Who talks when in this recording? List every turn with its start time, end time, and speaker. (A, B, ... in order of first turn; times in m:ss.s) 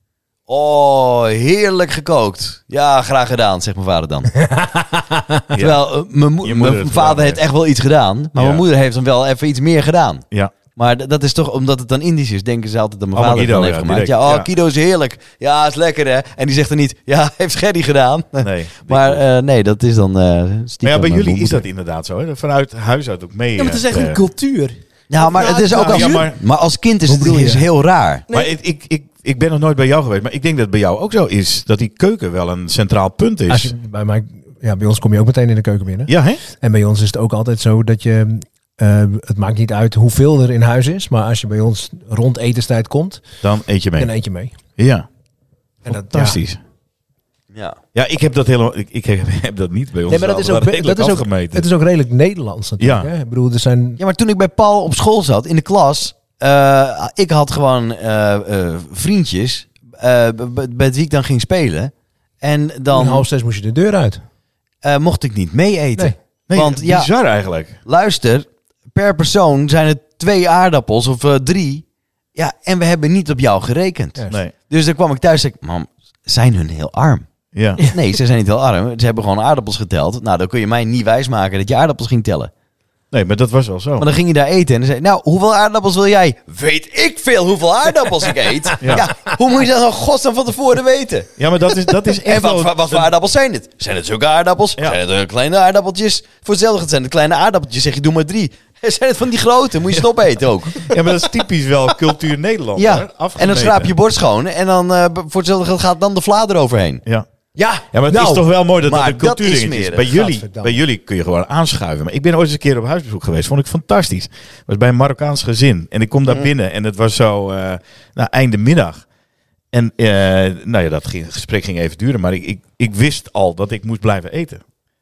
0:00.5-0:04.4 A
0:04.4-0:05.4 B
0:05.5-0:05.9 C
0:05.6-0:21.6 A
0:06.4-0:07.4 C
0:08.4-0:08.6 C
0:13.2-0:14.5 C
0:18.4-0:19.2 C
0:20.8-0:24.2 C
0:23.6-0:26.3 D
0:25.1-0:28.2 A
0:25.5-0:26.4 C
0:27.1-0:27.7 B
0:28.3-0:33.7 C
0:33.5-0:43.3 B
0:36.1-0:36.4 C
0:43.4-0:44.1 C
0:44.0-0:44.6 B
0:44.8-0:45.1 C
0:45.8-0:46.4 B
0:45.8-0:46.6 C
0:47.5-0:47.8 A
0:48.0-0:51.7 C
0:50.1-0:54.0 B
0:52.8-0:53.1 C
0:54.0-1:03.3 A
1:02.9-1:04.2 B
1:04.8-1:07.1 A
1:06.5-1:07.8 C
1:07.8-1:17.3 A
1:17.5-1:17.9 C
1:17.9-1:22.5 A
1:23.1-1:24.1 C
1:24.0-1:31.3 A
1:28.8-1:29.1 C
1:31.4-1:33.1 C
1:32.2-1:40.9 A
1:40.9-1:43.9 C
1:42.8-1:47.0 A
1:47.6-1:48.4 B
1:47.9-1:59.0 C
1:48.8-1:50.2 A
1:50.1-1:50.8 B
1:59.7-2:04.6 C